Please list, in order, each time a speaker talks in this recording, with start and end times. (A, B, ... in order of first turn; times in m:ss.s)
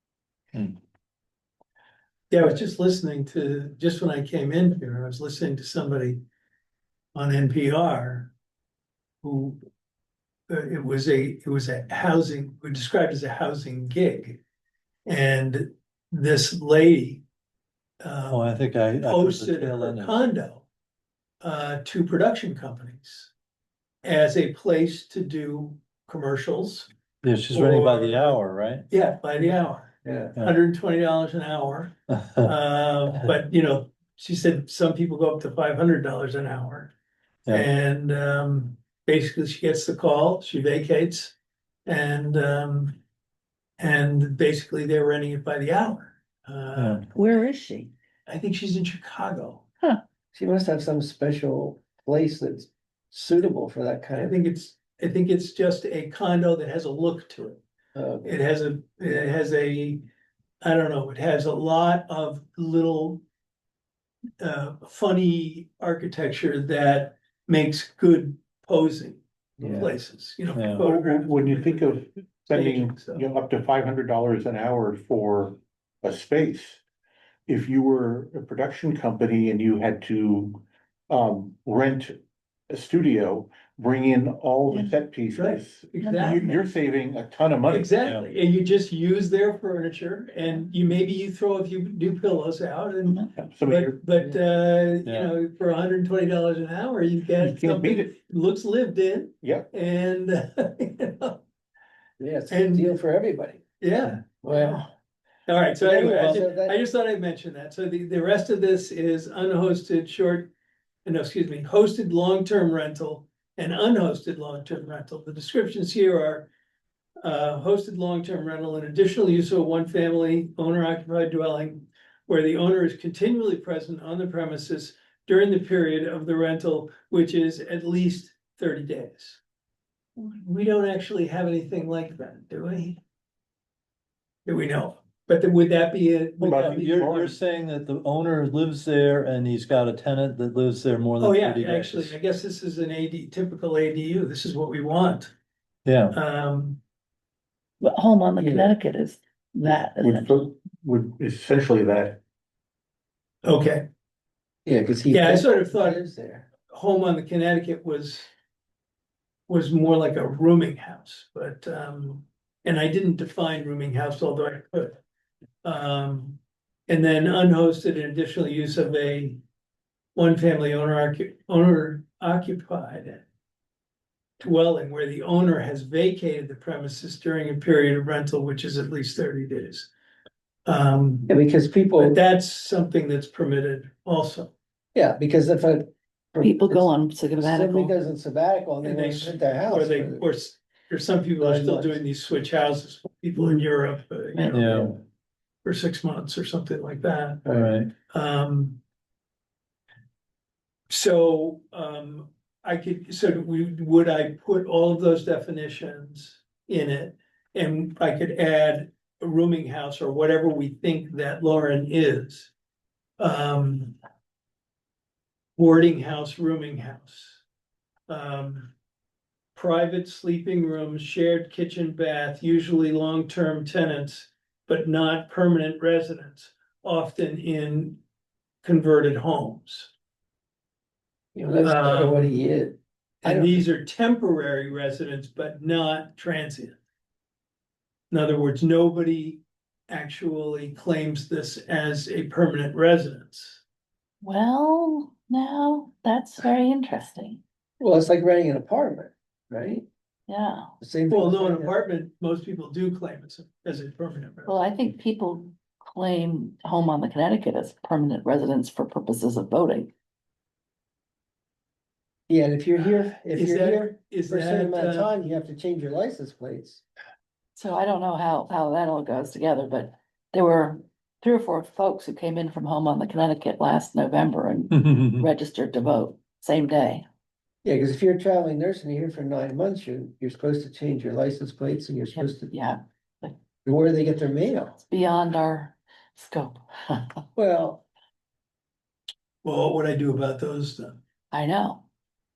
0:02.3-0:06.2 A
0:07.2-0:08.3 A
0:09.2-0:09.6 A
0:10.5-0:14.4 A
0:15.1-0:17.2 A
0:18.0-0:18.4 A
0:18.3-0:20.2 B
0:19.0-0:20.6 A
0:21.4-0:23.3 A
0:24.0-0:26.9 A
0:27.2-0:28.8 B
0:27.5-0:28.4 A
0:28.9-0:36.9 A
0:30.0-0:30.3 C
0:32.1-0:32.5 B
0:37.5-0:41.4 A
0:41.9-0:43.0 A
0:43.8-0:47.1 A
0:46.8-0:47.0 B
0:47.1-0:47.9 D
0:48.3-0:49.6 A
0:50.3-0:54.4 C
0:54.2-0:57.6 A
0:58.0-0:58.4 C
0:58.2-1:00.1 A
1:00.6-1:03.2 A
1:04.4-1:13.2 A
1:09.6-1:09.9 C
1:10.5-1:10.8 B
1:10.8-1:16.8 E
1:17.5-1:28.0 E
1:25.3-1:26.6 A
1:26.0-1:26.4 D
1:27.7-1:41.4 A
1:33.4-1:34.0 E
1:35.0-1:35.3 B
1:37.4-1:38.2 E
1:39.4-1:39.7 E
1:42.2-1:43.6 C
1:42.5-1:43.0 A
1:43.8-1:44.8 A
1:44.4-1:44.9 C
1:45.5-1:50.5 A
1:45.8-1:46.8 C
1:51.0-1:56.5 A
1:57.2-2:09.4 A
2:10.2-2:13.0 A
2:14.5-2:17.4 A
2:16.4-2:17.3 E
2:16.4-2:22.1 B
2:21.2-2:25.3 A
2:25.8-2:26.2 B
2:26.1-2:26.8 A
2:27.8-2:30.4 D
2:28.4-2:28.7 C
2:30.0-2:32.2 E
2:33.4-2:33.9 A
2:34.7-2:36.5 C
2:35.1-2:36.0 A
2:36.7-2:38.3 A
2:39.5-2:45.0 A
2:45.6-2:49.4 A
2:50.2-2:53.2 A
2:54.4-2:59.9 A
3:00.7-3:01.3 A
3:01.3-3:02.2 C
3:02.0-3:04.5 A
3:05.0-3:10.3 C
3:06.4-3:07.9 D
3:08.8-3:14.9 A
3:11.4-3:12.0 C
3:13.4-3:13.6 D
3:14.4-3:14.6 D
3:14.5-3:14.9 B
3:15.6-3:17.5 A
3:17.5-3:17.7 C
3:17.5-3:17.9 B
3:18.1-3:18.8 A
3:20.9-3:32.5 A
3:33.2-3:34.0 A
3:35.6-3:37.4 A
3:38.1-3:38.7 A
3:39.6-3:48.0 A
3:48.6-3:49.9 A
3:51.3-3:53.6 C
3:51.6-3:52.3 A
3:53.2-3:56.8 A
3:58.1-4:03.6 A
4:04.2-4:07.4 D
4:07.8-4:09.9 C
4:10.3-4:10.7 D
4:10.8-4:11.8 C
4:11.1-4:14.6 A
4:14.5-4:19.9 D
4:22.3-4:26.8 C
4:23.3-4:25.1 A
4:27.6-4:37.1 D
4:34.7-4:35.3 B
4:37.6-4:42.5 C
4:42.1-4:43.4 D
4:43.6-4:44.8 C
4:44.8-4:47.2 D
4:47.4-4:47.8 C
4:49.4-4:51.0 A
4:51.3-4:51.8 D